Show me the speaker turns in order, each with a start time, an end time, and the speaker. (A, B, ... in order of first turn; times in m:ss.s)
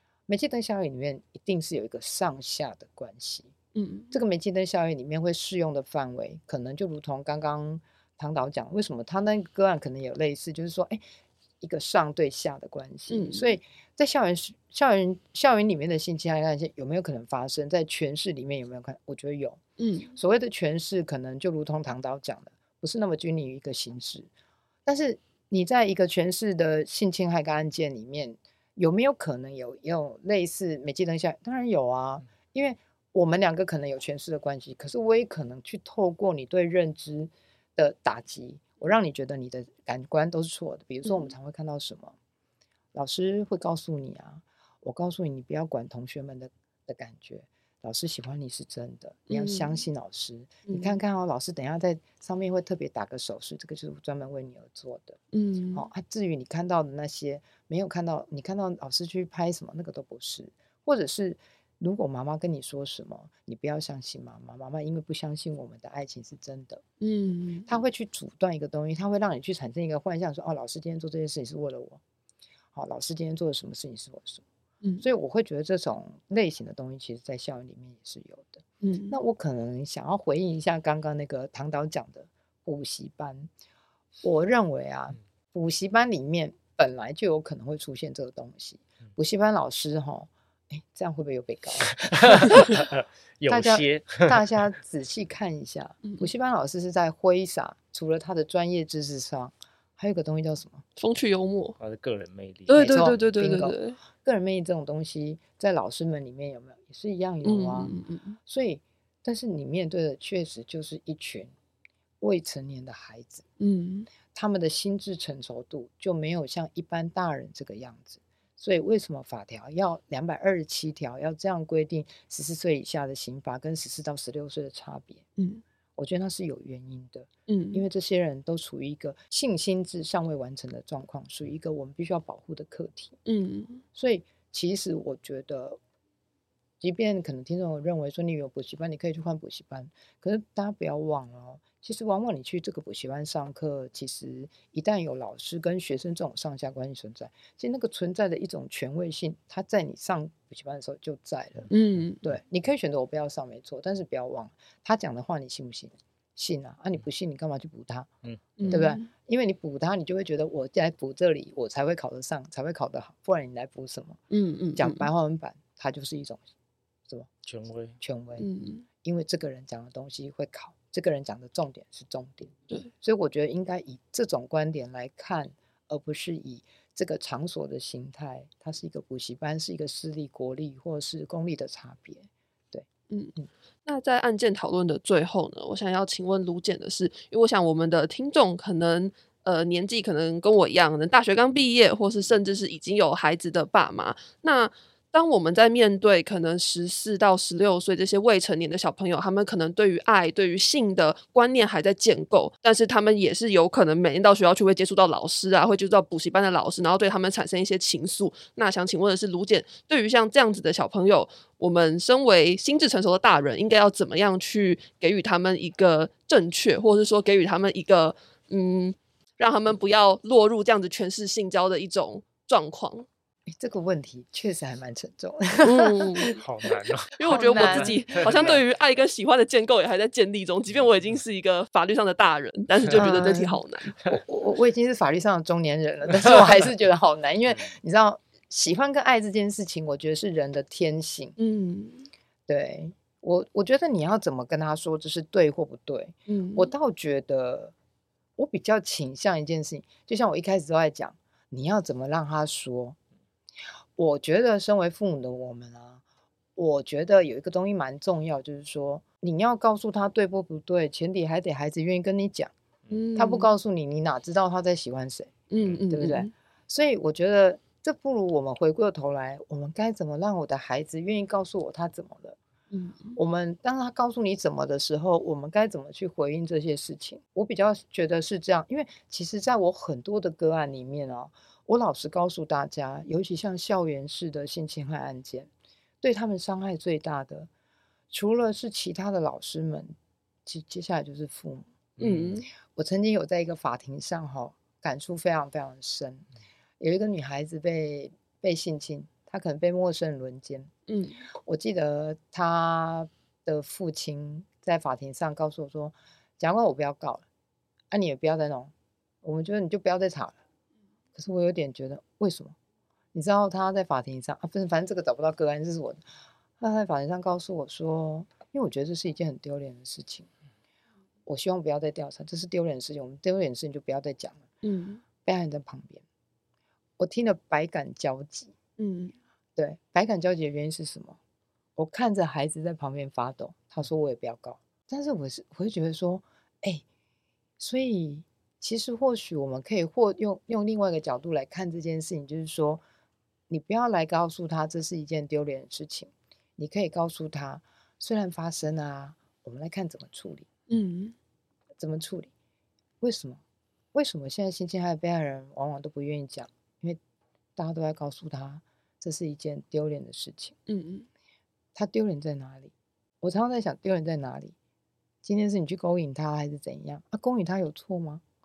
0:00.3-0:03.5 A
0:03.7-0:04.1 B
0:04.1-0:11.0 A
0:11.6-0:19.6 A
0:13.1-0:13.6 B
0:19.8-0:20.1 B
0:20.1-0:24.3 A
0:24.8-0:42.1 A
0:42.9-0:55.2 A
0:49.3-0:49.8 B
0:50.7-0:51.0 B
0:55.3-0:55.8 B
0:55.7-1:06.8 A
1:07.0-1:07.7 B
1:07.6-1:12.0 A
1:12.7-1:14.4 A
1:15.0-1:23.5 A
1:18.8-1:19.2 B
1:24.2-1:32.7 A
1:32.0-1:34.4 C
1:33.5-1:40.8 A
1:41.0-1:41.8 B
1:41.8-1:43.1 C
1:42.7-1:44.0 B
1:42.7-1:51.5 A
1:47.4-1:48.4 B
1:52.2-1:53.4 A
1:53.6-1:54.1 B
1:54.3-2:05.2 A
2:05.4-2:05.6 B
2:06.0-2:13.2 A
2:07.5-2:07.8 B
2:13.2-2:13.8 B
2:13.9-2:15.8 A
2:16.8-2:31.7 A
2:31.7-2:32.2 B
2:32.2-2:38.1 A
2:38.2-2:38.8 C
2:38.6-2:39.0 B
2:38.7-2:44.2 A
2:44.3-2:45.1 B
2:44.8-2:46.5 A
2:47.4-2:48.0 C
2:48.0-2:48.5 A
2:48.4-2:48.8 B
2:49.0-3:03.5 A
3:03.8-3:43.1 B
3:43.5-3:46.4 A
3:45.6-3:46.4 B
3:46.4-3:48.6 C
3:47.2-3:54.0 B
3:47.2-3:48.6 A
3:52.9-4:01.4 A
4:01.4-4:02.1 B
4:02.5-4:07.7 A
4:06.3-4:06.7 B
4:08.4-4:13.0 A
4:14.0-4:16.0 A
4:16.6-4:22.5 A
4:22.9-4:23.5 B
4:23.1-4:25.3 A
4:25.5-4:26.3 B
4:25.9-4:32.4 A
4:32.7-4:33.2 B
4:33.1-4:45.5 A
4:46.0-4:47.5 A
4:48.1-4:49.9 A
4:50.4-4:51.7 A
4:52.0-4:52.3 C
4:52.0-4:52.4 B
4:52.6-4:56.2 A
4:56.8-5:00.7 A
5:00.9-5:01.2 B
5:01.4-5:07.2 A
5:07.9-5:10.4 A
5:11.1-5:12.5 A
5:13.1-5:16.0 A
5:16.6-5:20.3 A
5:21.2-5:24.5 A
5:24.6-5:25.0 B
5:25.2-5:26.0 A
5:27.0-5:28.5 A
5:28.8-5:29.2 B
5:29.6-5:31.2 A
5:31.8-5:36.8 A
5:37.6-5:42.8 A
5:43.5-5:50.5 A
5:50.7-5:51.2 B
5:51.8-5:52.3 A
5:53.0-5:53.4 A
5:53.9-5:57.0 A
5:57.6-6:00.6 A
6:00.7-6:01.1 B
6:01.7-6:04.5 A
6:05.2-6:08.2 A